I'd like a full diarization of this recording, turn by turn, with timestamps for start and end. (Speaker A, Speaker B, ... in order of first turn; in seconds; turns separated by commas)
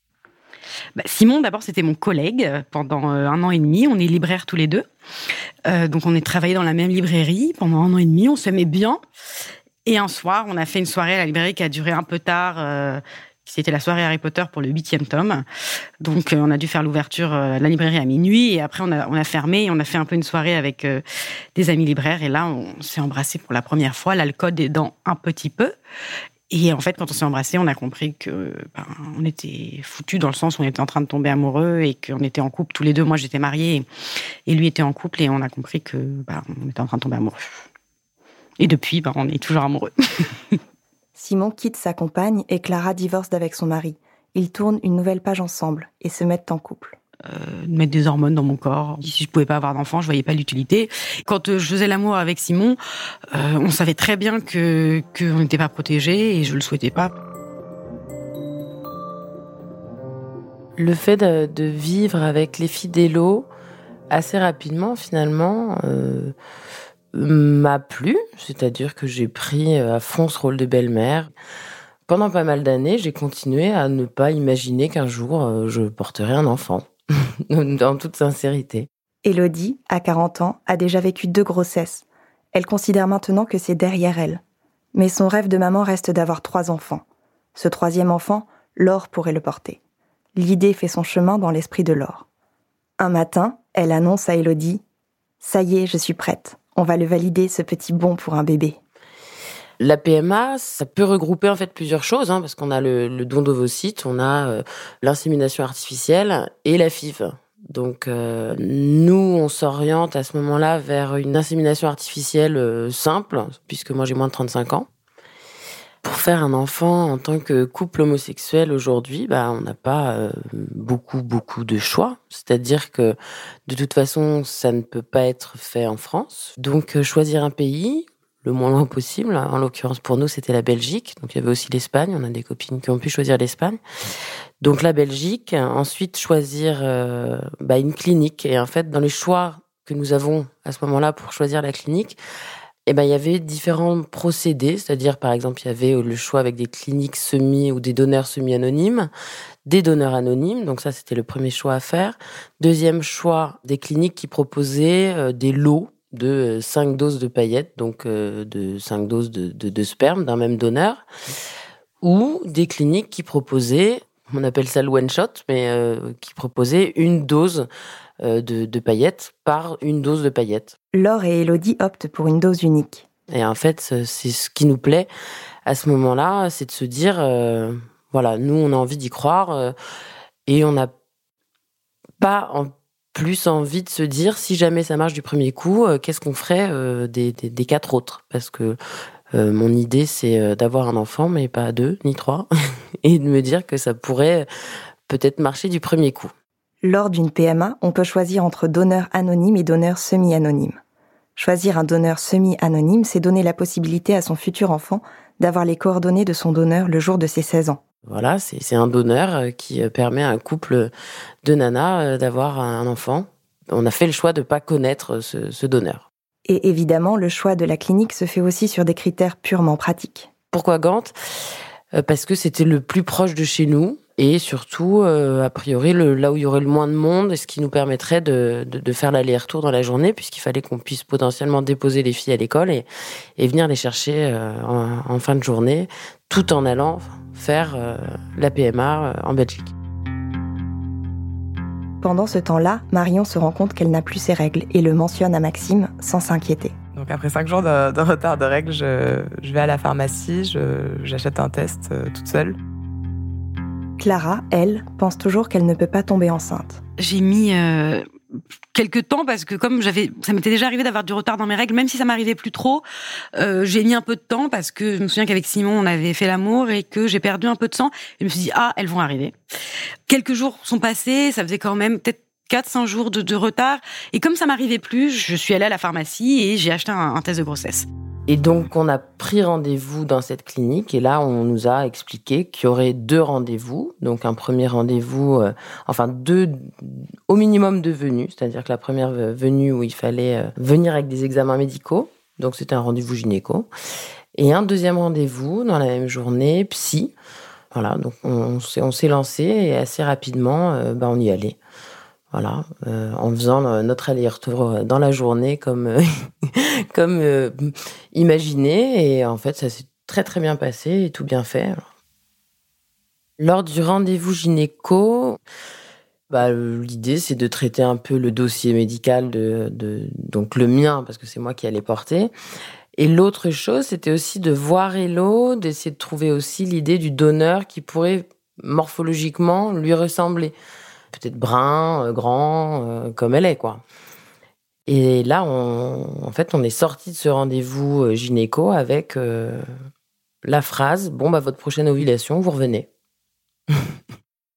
Speaker A: 0.9-4.8, Speaker A: 5.6-9.0, Speaker A: 9.8-15.4, Speaker A: 16.0-21.0, Speaker A: 21.5-25.7, Speaker A: 26.5-33.9, Speaker A: 34.5-37.6, Speaker A: 38.6-40.6, Speaker B: 41.1-47.0, Speaker A: 47.2-52.8, Speaker A: 53.3-57.1, Speaker C: 60.8-63.5, Speaker C: 64.1-66.3, Speaker C: 67.1-71.3, Speaker C: 72.1-76.9, Speaker C: 77.5-78.9, Speaker B: 79.2-84.4, Speaker B: 84.9-89.8, Speaker B: 90.3-92.2, Speaker B: 93.0-94.8, Speaker B: 95.4-98.8, Speaker C: 99.8-114.9, Speaker C: 116.0-133.8, Speaker C: 134.6-142.2, Speaker C: 142.8-149.1, Speaker C: 149.6-161.0, Speaker C: 162.0-167.7, Speaker C: 168.2-170.8, Speaker B: 170.9-173.1, Speaker C: 173.3-175.1, Speaker C: 175.7-179.7, Speaker C: 180.4-180.9, Speaker C: 182.2-188.8, Speaker C: 189.3-192.5, Speaker C: 193.0-194.5, Speaker C: 195.1-196.3, Speaker B: 196.8-200.8, Speaker B: 201.3-207.8, Speaker C: 208.1-210.9, Speaker C: 211.4-216.1, Speaker B: 216.5-220.3, Speaker C: 220.5-221.1, Speaker C: 221.9-232.8, Speaker C: 233.4-239.7, Speaker B: 242.0-246.7, Speaker D: 246.9-252.6, Speaker B: 254.0-256.8, Speaker A: 257.0-258.1, Speaker A: 258.7-262.8, Speaker A: 263.4-269.3, Speaker A: 270.1-277.9, Speaker C: 278.3-293.7, Speaker C: 294.3-297.1, Speaker C: 297.7-301.6, Speaker C: 302.3-311.8, Speaker C: 313.4-315.4, Speaker C: 316.3-322.3, Speaker C: 322.9-330.5, Speaker C: 331.1-333.8, Speaker C: 334.9-339.6, Speaker C: 340.4-342.9